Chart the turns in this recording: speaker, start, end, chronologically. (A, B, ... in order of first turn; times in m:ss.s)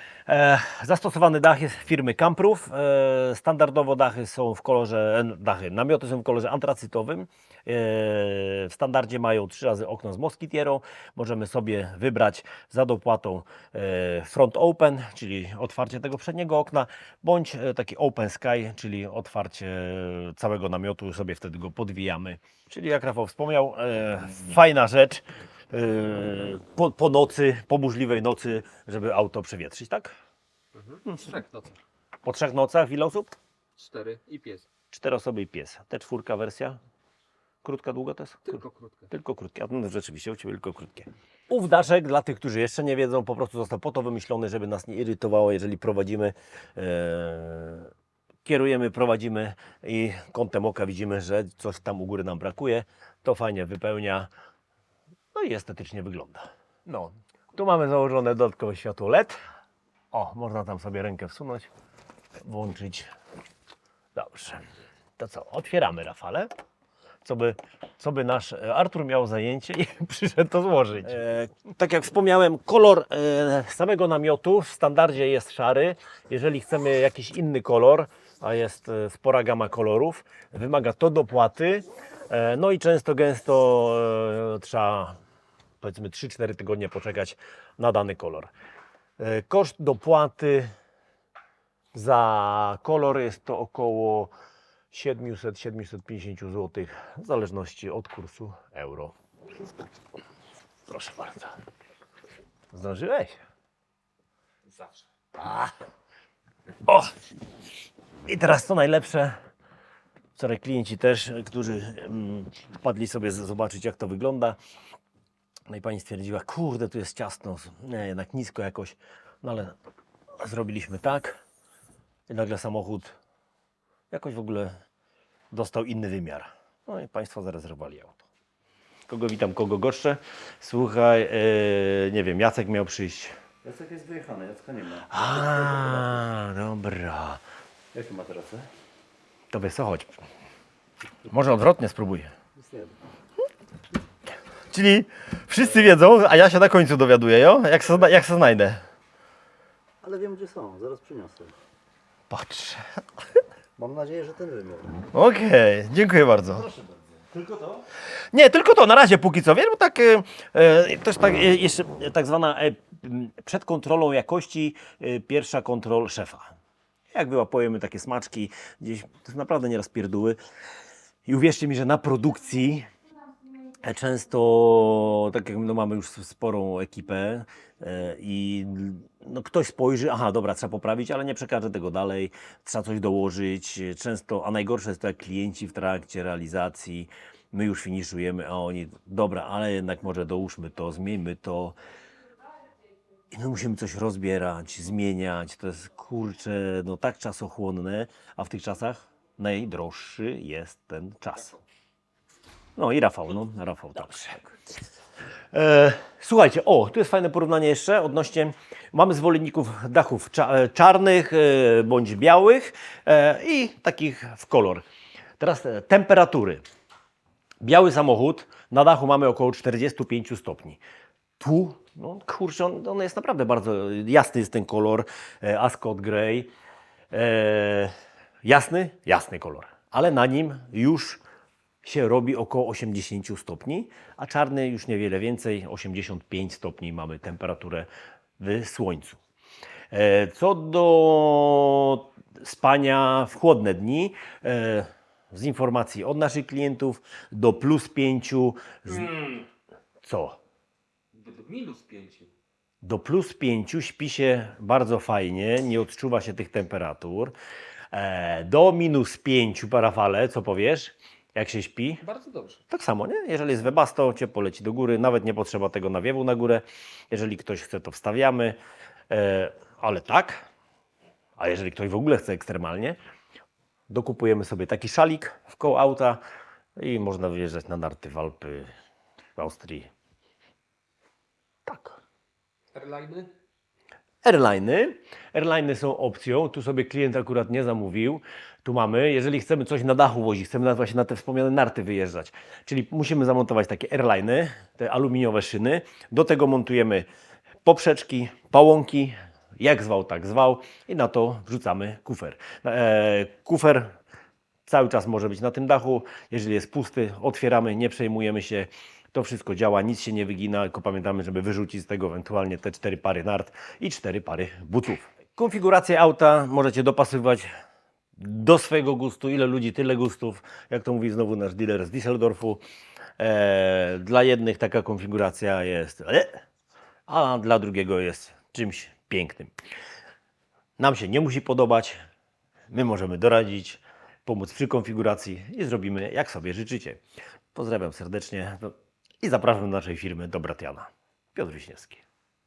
0:00.3-0:30.1 A
0:30.9-0:31.7 B
0:31.0-0:31.4 A
0:32.2-0:33.3 A
0:33.8-0:34.6 B
0:34.9-0:36.8 A
0:37.6-0:47.9 A
0:38.5-0:39.1 B
0:48.4-0:54.3 A
0:55.3-0:59.4 A
1:00.1-1:01.7 A
1:02.4-1:03.1 A
1:04.1-1:04.6 A
1:05.2-1:06.5 A
1:07.2-1:25.2 A
1:25.8-1:28.5 A
1:29.2-1:30.7 A
1:31.9-1:34.3 A
1:34.9-1:39.1 A
1:40.9-1:41.6 A
1:42.7-1:43.4 A
1:45.3-1:45.7 A
1:46.8-1:47.1 A
1:48.3-1:49.4 A
1:50.3-1:54.6 A
1:55.7-1:59.7 A
2:00.4-2:01.4 A
2:02.3-2:03.2 A
2:04.1-2:04.7 A
2:05.5-2:08.2 A
2:09.1-2:13.3 A
2:13.6-2:15.1 C
2:15.0-2:17.4 A
2:17.9-2:18.7 C
2:19.5-2:20.2 A
2:21.3-2:22.3 A
2:22.6-2:22.9 C
2:24.7-2:28.8 A
2:30.0-2:31.5 C
2:32.3-2:32.8 A
2:33.8-2:35.0 C
2:35.1-2:36.7 A
2:36.7-2:37.8 C
2:38.3-2:46.5 A
2:47.1-2:50.4 A
2:51.2-2:52.9 A
2:53.8-3:11.8 A
3:13.3-3:21.6 A
3:22.8-3:24.5 A
3:25.5-3:34.8 A
3:35.4-3:36.6 A
3:37.6-3:40.8 A
3:41.4-3:46.5 A
3:47.1-3:47.9 A
3:48.4-3:51.2 A
3:51.8-3:57.9 A
3:58.4-3:59.2 A
3:59.9-4:09.4 A
4:10.0-4:10.4 A
4:11.2-4:12.3 B
4:12.8-4:17.3 A
4:17.9-4:22.0 A
4:22.0-4:22.6 B
4:22.7-4:28.6 A
4:29.1-4:30.5 A
4:31.4-4:33.0 A
4:33.9-4:36.2 A
4:36.8-4:38.7 A
4:39.4-4:39.9 A
4:41.6-4:42.0 A
4:42.8-4:43.3 B
4:44.2-4:57.1 A
4:57.6-5:04.0 A
5:04.7-5:17.5 A
5:18.2-5:22.6 A
5:23.2-5:26.4 A
5:27.1-5:29.5 A
5:30.8-5:32.0 A
5:32.7-5:37.0 A
5:37.5-5:42.0 A